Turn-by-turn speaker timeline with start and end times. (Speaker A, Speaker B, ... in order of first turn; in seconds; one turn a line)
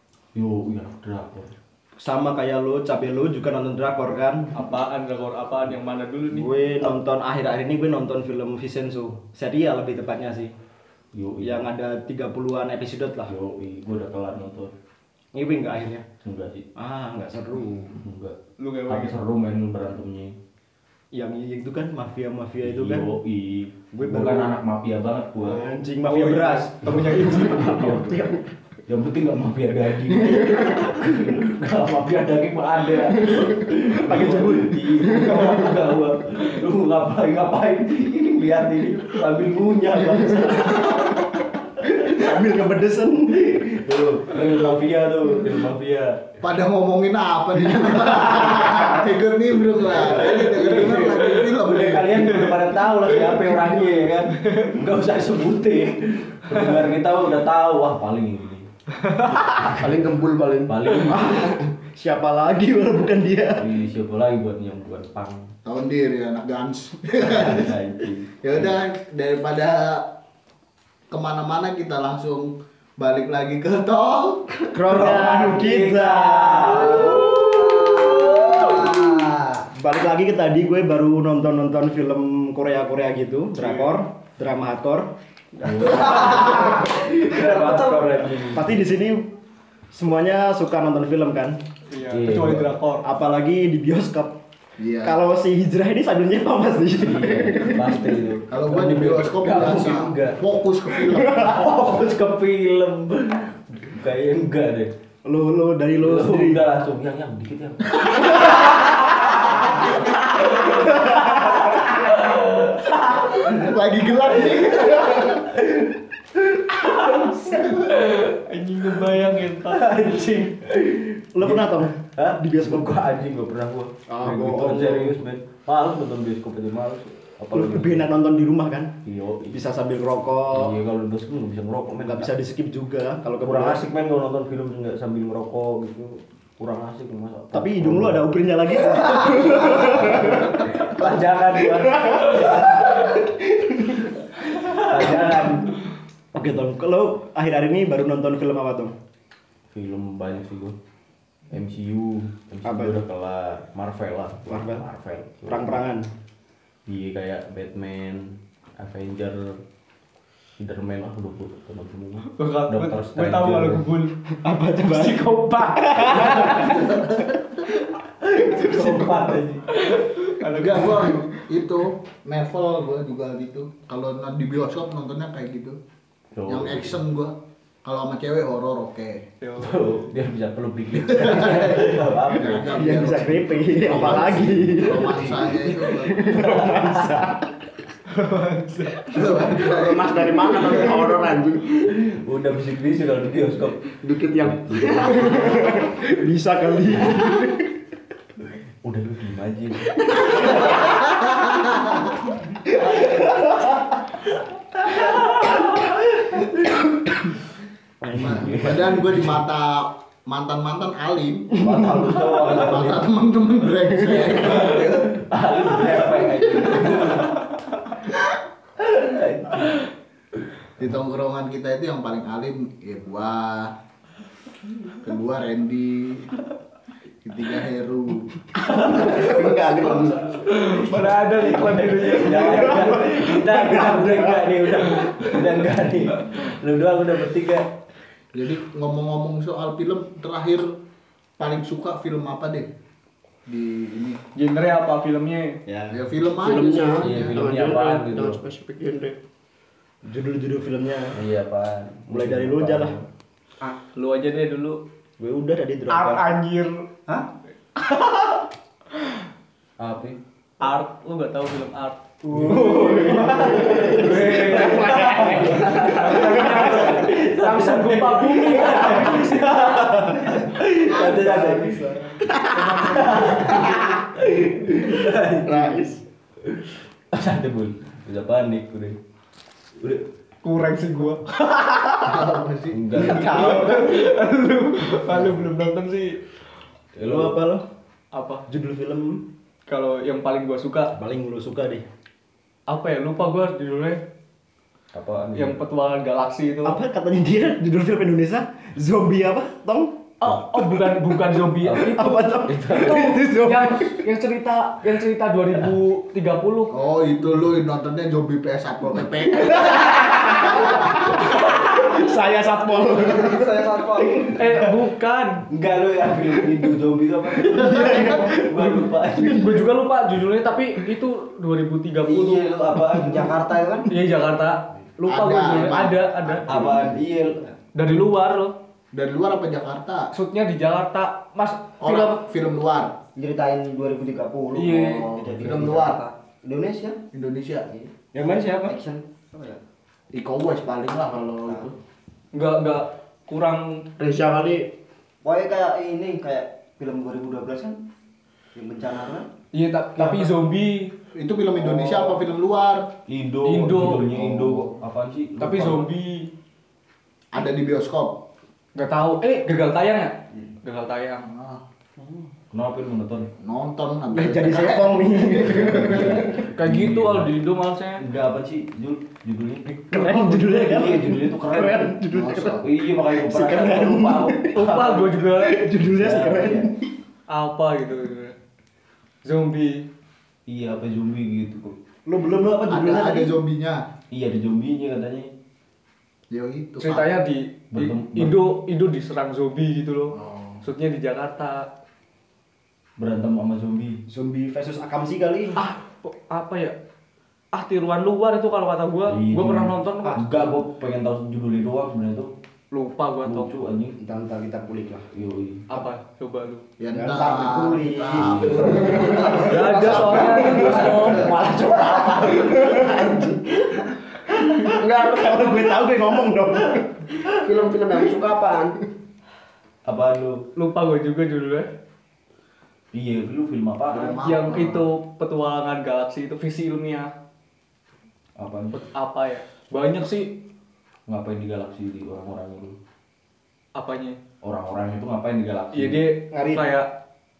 Speaker A: 0.3-1.5
Speaker B: 1.9-4.5
Speaker C: 4.5-6.5
Speaker B: 6.3-10.5
Speaker A: 11.1-11.7
Speaker B: 11.4-13.3
Speaker A: 13.3-14.7
Speaker B: 15.3-16.1
Speaker A: 16.2-16.7
Speaker B: 16.8-17.9
Speaker A: 17.9-20.4
Speaker C: 18.6-19.2
Speaker B: 21.1-23.1
Speaker A: 22.6-25.7
Speaker B: 23.9-24.6
Speaker B: 25.4-27.3
Speaker C: 25.7-28.0
Speaker A: 27.0-28.3
Speaker B: 28.1-28.4
Speaker A: 28.9-41.5
Speaker B: 30.6-30.9
Speaker B: 33.8-35.3
Speaker B: 41.8-44.0
Speaker A: 43.6-46.3
Speaker D: 46.4-52.5
Speaker A: 49.9-58.7
Speaker C: 51.3-53.6
Speaker C: 54.2-54.7
Speaker C: 59.0-59.3
Speaker A: 59.4-60.0
Speaker E: 59.5-61.4
Speaker A: 60.7-61.6
Speaker B: 61.1-63.7
Speaker A: 63.6-65.5
Speaker D: 65.6-67.8
Speaker A: 67.3-68.7
Speaker D: 68.4-70.1
Speaker D: 71.1-74.6
Speaker B: 74.7-77.0
Speaker A: 74.9-77.2
Speaker D: 76.9-79.5
Speaker F: 77.6-79.2
Speaker B: 78.4-79.0
Speaker B: 79.7-85.1
Speaker A: 83.6-83.9
Speaker A: 85.6-88.8
Speaker F: 85.6-88.3
Speaker B: 85.8-86.1
Speaker B: 88.4-89.3
Speaker B: 89.9-91.6
Speaker C: 91.9-93.0
Speaker A: 92.0-92.7
Speaker B: 93.0-94.4
Speaker D: 94.8-95.2
Speaker B: 95.0-98.1
Speaker A: 97.0-100.4
Speaker D: 98.5-101.7
Speaker B: 101.1-101.5
Speaker A: 101.4-104.9
Speaker B: 105.2-106.6
Speaker A: 106.0-113.5
Speaker D: 113.4-115.5
Speaker A: 114.5-117.8
Speaker C: 117.7-120.0
Speaker A: 119.7-128.1
Speaker B: 121.3-122.9
Speaker B: 124.1-125.2
Speaker B: 127.5-128.9
Speaker A: 129.0-129.6
Speaker B: 129.5-130.8
Speaker A: 130.5-132.3
Speaker B: 131.9-133.8
Speaker A: 133.4-138.3
Speaker B: 137.5-141.0
Speaker A: 139.1-142.7
Speaker B: 141.7-144.0
Speaker A: 144.7-145.5
Speaker B: 144.8-145.7
Speaker B: 146.3-148.9
Speaker A: 149.7-150.8
Speaker A: 151.5-155.8
Speaker B: 152.6-153.1
Speaker B: 154.5-154.8
Speaker B: 155.4-156.1
Speaker A: 156.9-159.6
Speaker A: 160.6-163.8
Speaker C: 162.3-164.2
Speaker B: 164.3-167.9
Speaker C: 164.9-166.5
Speaker D: 166.2-167.7
Speaker A: 168.2-169.6
Speaker B: 168.5-169.5
Speaker C: 169.7-171.3
Speaker D: 170.4-175.8
Speaker A: 176.3-177.0
Speaker D: 176.4-179.2
Speaker C: 179.4-179.8
Speaker A: 179.6-182.9
Speaker D: 180.9-186.3
Speaker B: 182.7-187.5
Speaker A: 183.7-184.6
Speaker A: 185.8-187.1
Speaker C: 188.1-189.2
Speaker D: 189.1-190.2
Speaker E: 189.2-191.8
Speaker A: 191.8-193.8
Speaker E: 194.0-195.8
Speaker A: 194.4-196.2
Speaker B: 195.4-197.8
Speaker A: 198.8-200.6
Speaker E: 200.1-201.0
Speaker D: 200.6-201.9
Speaker A: 205.1-206.5
Speaker A: 208.0-209.4
Speaker B: 208.1-208.5
Speaker D: 208.1-211.7
Speaker A: 211.6-213.2
Speaker B: 211.8-212.1
Speaker D: 212.3-215.2
Speaker B: 214.1-214.4
Speaker A: 214.4-217.5
Speaker D: 215.8-217.3
Speaker B: 218.8-219.8
Speaker A: 219.0-219.7
Speaker D: 220.8-223.7
Speaker D: 225.0-226.3
Speaker D: 227.2-230.2
Speaker A: 228.9-229.2
Speaker E: 229.0-230.3
Speaker C: 230.4-233.4
Speaker A: 230.7-237.8
Speaker C: 234.7-235.3
Speaker D: 238.3-240.8
Speaker D: 241.4-242.7
Speaker D: 243.5-244.2
Speaker C: 244.3-245.6
Speaker B: 245.7-246.0
Speaker D: 245.9-247.7
Speaker E: 246.4-249.2
Speaker A: 247.0-248.4
Speaker B: 250.0-251.2
Speaker A: 251.1-253.1
Speaker B: 252.1-252.9
Speaker C: 253.9-254.8
Speaker B: 255.2-256.3
Speaker C: 255.9-256.9
Speaker C: 257.8-258.1
Speaker A: 259.8-260.2
Speaker C: 260.6-262.2
Speaker B: 262.3-266.6
Speaker E: 263.0-266.3
Speaker A: 263.5-265.6
Speaker C: 263.9-270.0
Speaker A: 266.3-271.9
Speaker E: 272.6-273.8
Speaker A: 272.8-275.9
Speaker E: 275.4-276.0
Speaker A: 276.4-279.0
Speaker A: 279.8-280.1
Speaker C: 280.4-282.2
Speaker D: 282.0-283.4
Speaker A: 282.7-283.9
Speaker C: 282.9-286.2
Speaker B: 283.1-283.9
Speaker B: 285.1-285.5
Speaker A: 286.9-287.4
Speaker B: 287.0-287.6
Speaker C: 288.1-288.4
Speaker B: 288.5-289.2
Speaker C: 289.7-290.9
Speaker B: 290.9-291.8
Speaker C: 292.7-294.0
Speaker A: 294.9-295.6
Speaker C: 295.3-296.8
Speaker B: 296.6-299.9
Speaker C: 300.2-306.7
Speaker B: 301.7-304.0
Speaker A: 302.5-303.0
Speaker D: 306.7-310.8
Speaker B: 309.7-314.7
Speaker F: 313.0-314.3
Speaker C: 314.4-315.4
Speaker A: 315.5-319.3
Speaker B: 317.5-318.4
Speaker C: 318.3-322.5
Speaker F: 322.0-322.5
Speaker A: 322.5-323.2
Speaker F: 323.0-323.9
Speaker C: 323.9-326.8
Speaker D: 325.1-326.9
Speaker B: 326.5-326.8
Speaker A: 326.5-327.2
Speaker F: 326.7-327.6
Speaker C: 327.7-328.6
Speaker D: 328.9-330.1
Speaker C: 330.1-332.2
Speaker D: 331.8-333.0
Speaker F: 333.1-337.0
Speaker C: 334.5-335.1
Speaker D: 334.8-336.0
Speaker D: 337.1-337.7
Speaker B: 338.1-338.7
Speaker F: 338.6-339.6
Speaker D: 340.1-341.7
Speaker F: 341.4-341.7
Speaker C: 342.3-343.8
Speaker E: 344.0-344.7
Speaker F: 345.2-347.8
Speaker F: 348.5-349.3
Speaker C: 349.5-350.9
Speaker D: 351.1-352.9
Speaker A: 353.1-355.9
Speaker C: 353.4-354.0
Speaker D: 354.0-354.8
Speaker C: 355.4-356.3
Speaker D: 357.3-358.2
Speaker C: 358.7-361.3
Speaker D: 361.2-361.6
Speaker A: 362.5-363.3
Speaker D: 363.4-366.1
Speaker B: 364.1-366.4
Speaker A: 365.7-367.3
Speaker C: 366.5-368.0
Speaker A: 368.0-371.9
Speaker B: 369.8-374.7
Speaker D: 372.1-372.6
Speaker A: 372.6-375.1
Speaker C: 374.5-375.7
Speaker B: 375.3-376.9
Speaker A: 375.8-376.7
Speaker C: 377.3-378.4
Speaker C: 379.2-379.9
Speaker A: 380.5-381.7
Speaker B: 382.1-383.4
Speaker D: 382.6-383.8
Speaker A: 384.1-385.3
Speaker D: 386.3-387.2
Speaker C: 386.8-391.7
Speaker A: 387.7-388.4
Speaker D: 390.1-390.6
Speaker A: 393.0-394.0
Speaker B: 394.1-395.6
Speaker C: 395.6-396.7
Speaker C: 397.5-400.5
Speaker A: 399.1-402.3
Speaker C: 402.7-403.5
Speaker A: 403.2-403.9
Speaker B: 404.0-405.1
Speaker A: 405.1-405.6
Speaker C: 405.7-406.6
Speaker D: 406.8-411.3
Speaker B: 406.9-409.7
Speaker E: 408.7-409.4
Speaker C: 409.4-411.3
Speaker B: 410.3-411.6
Speaker A: 410.6-412.0
Speaker E: 411.7-413.5
Speaker B: 412.2-412.6
Speaker B: 414.5-417.0
Speaker E: 414.6-415.9
Speaker E: 417.2-418.7
Speaker A: 419.8-420.4
Speaker C: 420.5-421.7
Speaker A: 422.9-424.2
Speaker D: 423.9-424.9
Speaker C: 424.2-427.1
Speaker A: 428.4-428.8
Speaker C: 428.7-430.4
Speaker A: 431.1-432.7
Speaker C: 433.7-434.2
Speaker A: 434.4-436.1
Speaker C: 435.7-436.9
Speaker B: 436.3-436.7